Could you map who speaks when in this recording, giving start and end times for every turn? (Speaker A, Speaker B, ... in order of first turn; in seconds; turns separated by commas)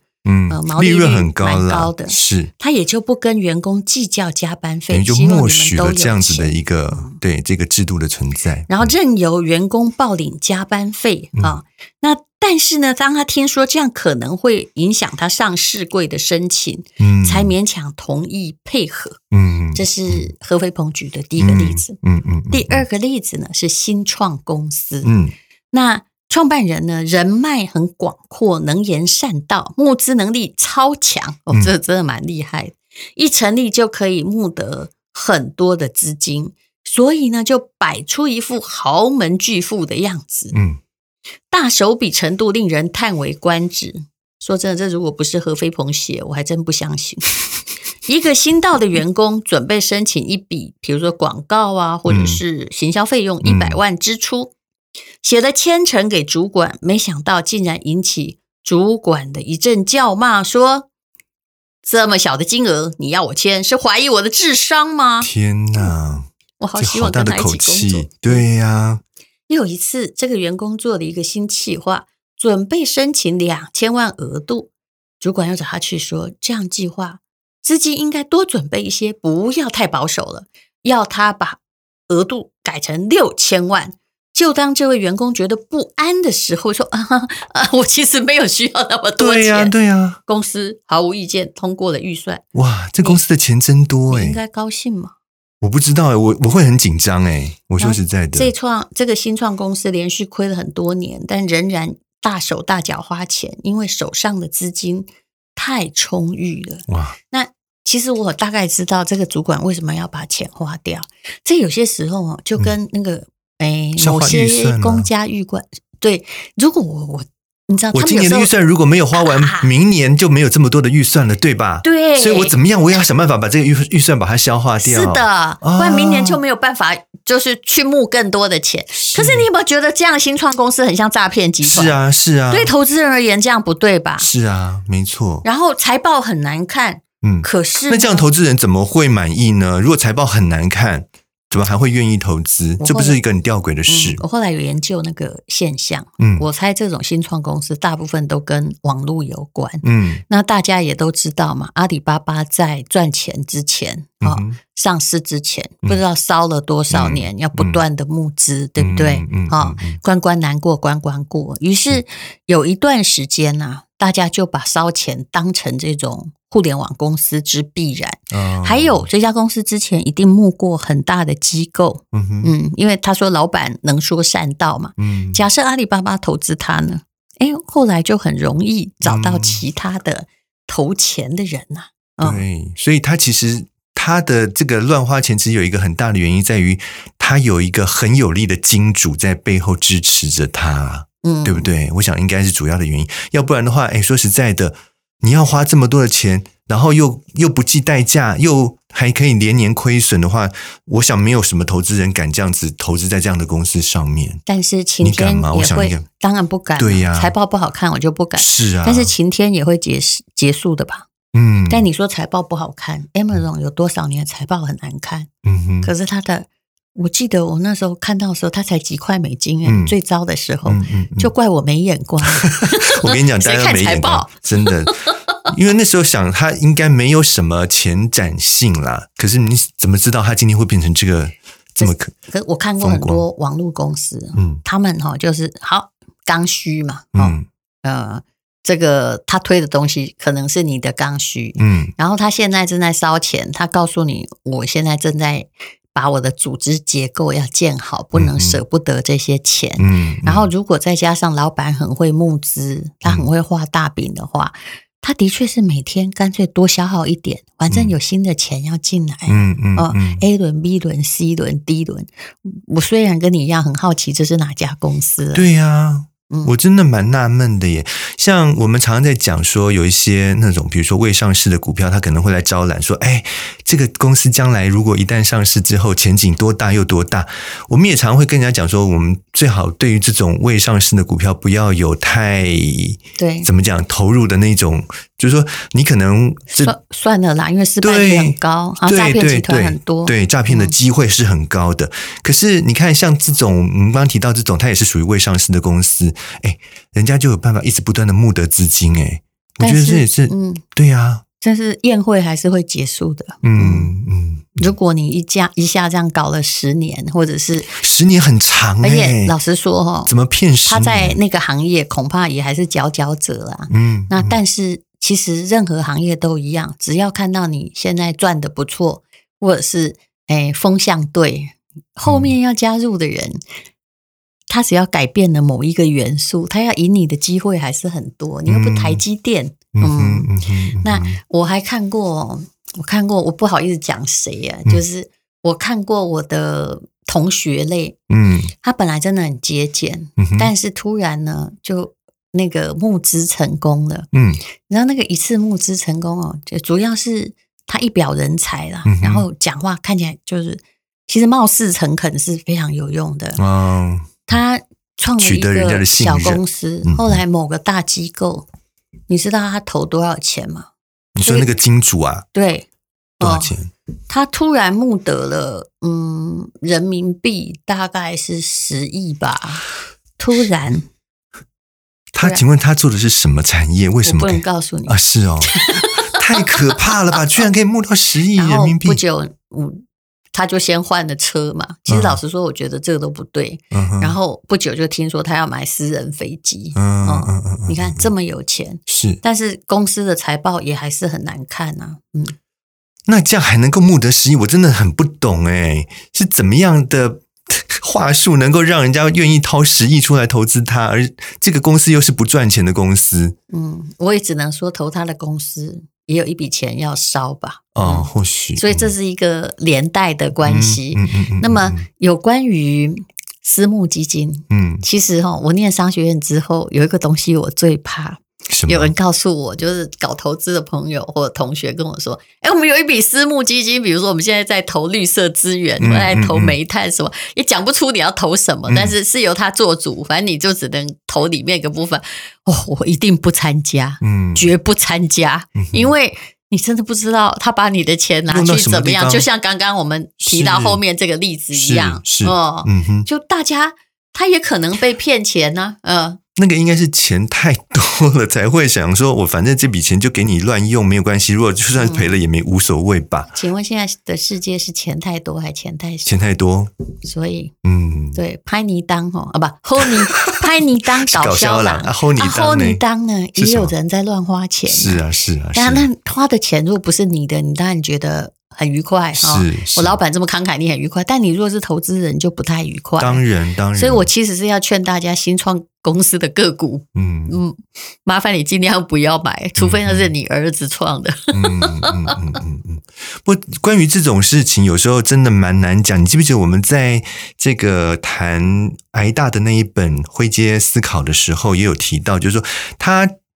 Speaker A: 0.2-2.5, Speaker B: 0.5-7.2, Speaker A: 4.9-8.9, Speaker B: 8.7-19.2, Speaker A: 17.0-17.5, Speaker A: 19.3-20.3, Speaker B: 19.8-22.0, Speaker A: 21.4-22.8, Speaker B: 22.5-25.1, Speaker A: 25.0-25.4, Speaker B: 25.7-40.6, Speaker A: 40.5-40.8, Speaker B: 41.5-47.4, Speaker B: 48.0-54.5, Speaker A: 52.1-52.4, Speaker A: 53.4-53.8, Speaker B: 55.2-60.9, Speaker B: 61.8-65.9, Speaker A: 65.2-69.0, Speaker B: 66.6-68.5, Speaker B: 69.5-89.7, Speaker A: 89.2-90.2, Speaker B: 90.3-92.4, Speaker A: 92.5-94.4, Speaker B: 94.1-95.1, Speaker A: 95.6-98.5, Speaker B: 97.8-118.5, Speaker A: 106.9-107.2, Speaker A: 114.0-115.1, Speaker A: 117.9-126.4, Speaker B: 119.1-119.7, Speaker B: 121.8-122.5, Speaker B: 124.8-132.0, Speaker A: 129.0-129.5, Speaker A: 131.6-132.7, Speaker B: 132.5-134.3, Speaker A: 134.2-135.4, Speaker B: 135.4-138.3, Speaker A: 137.2-144.2, Speaker B: 142.8-143.2, Speaker B: 143.9-182.4, Speaker A: 146.2-146.5, Speaker A: 149.8-150.2, Speaker A: 154.2-154.6, Speaker A: 156.9-157.8, Speaker A: 158.8-160.0, Speaker A: 168.3-169.1, Speaker A: 172.1-172.6, Speaker A: 175.0-175.5, Speaker A: 179.0-179.7, Speaker A: 182.2-204.4, Speaker B: 191.2-191.7, Speaker B: 204.5-211.1, Speaker A: 205.0-206.0, Speaker A: 206.8-207.3, Speaker A: 208.4-209.1, Speaker A: 211.3-211.9, Speaker B: 211.7-215.3, Speaker A: 215.4-215.9, Speaker B: 215.8-225.3, Speaker A: 219.7-219.9, Speaker A: 220.7-221.3, Speaker A: 222.4-232.1, Speaker B: 231.8-265.5, Speaker A: 232.8-233.2, Speaker A: 234.4-234.6, Speaker A: 237.2-237.5, Speaker A: 241.6-241.9, Speaker A: 248.1-248.6, Speaker A: 249.8-250.5, Speaker A: 259.3-260.2, Speaker A: 265.3-286.8, Speaker B: 283.2-283.5, Speaker B: 286.5-290.7, Speaker A: 287.8-301.2, Speaker B: 299.6-300.6, Speaker B: 301.4-303.9, Speaker A: 303.4-304.7, Speaker B: 304.6-307.7, Speaker A: 307.7-309.3, Speaker B: 308.8-310.1, Speaker A: 310.1-311.2, Speaker B: 310.6-323.4, Speaker A: 313.7-314.4, Speaker A: 322.1-322.3, Speaker B: 324.5-330.3, Speaker A: 328.5-329.0, Speaker A: 329.8-331.2, Speaker B: 330.8-338.0, Speaker A: 338.1-338.5, Speaker B: 338.6-344.1, Speaker A: 340.2-340.5, Speaker A: 344.1-344.4, Speaker B: 344.6-353.4, Speaker A: 348.9-349.3, Speaker A: 353.4-354.3, Speaker B: 354.2-358.5, Speaker A: 355.2-357.2, Speaker B: 359.1-360.7, Speaker A: 361.2-362.3, Speaker B: 361.2-361.5, Speaker B: 362.3-362.7, Speaker B: 363.2-363.6, Speaker A: 363.2-363.7, Speaker B: 364.1-369.7, Speaker B: 370.2-370.9, Speaker A: 372.1-379.0, Speaker B: 374.0-377.4, Speaker B: 378.4-392.4, Speaker A: 381.9-382.2, Speaker A: 383.7-384.2, Speaker A: 386.8-388.1, Speaker A: 388.9-389.2, Speaker A: 393.1-403.4, Speaker B: 403.5-446.2, Speaker A: 407.8-408.9, Speaker A: 410.4-411.8, Speaker A: 414.5-414.9, Speaker A: 418.5-418.9, Speaker A: 425.8-426.6, Speaker A: 428.7-428.9, Speaker A: 434.0-434.5, Speaker A: 435.6-435.9, Speaker A: 438.3-439.3, Speaker A: 440.2-440.8, Speaker A: 441.5-443.1, Speaker A: 446.4-453.3, Speaker B: 451.8-452.2, Speaker B: 453.3-456.1, Speaker A: 456.1-456.7, Speaker B: 457.0-457.5, Speaker A: 457.6-458.2, Speaker B: 458.1-465.0, Speaker A: 459.8-460.4, Speaker A: 461.1-462.8, Speaker A: 463.4-463.7, Speaker A: 464.7-465.9, Speaker B: 465.6-473.2, Speaker A: 469.1-470.0, Speaker A: 473.0-474.1, Speaker B: 473.7-482.4, Speaker A: 476.9-477.4, Speaker A: 479.6-480.1, Speaker A: 481.3-493.1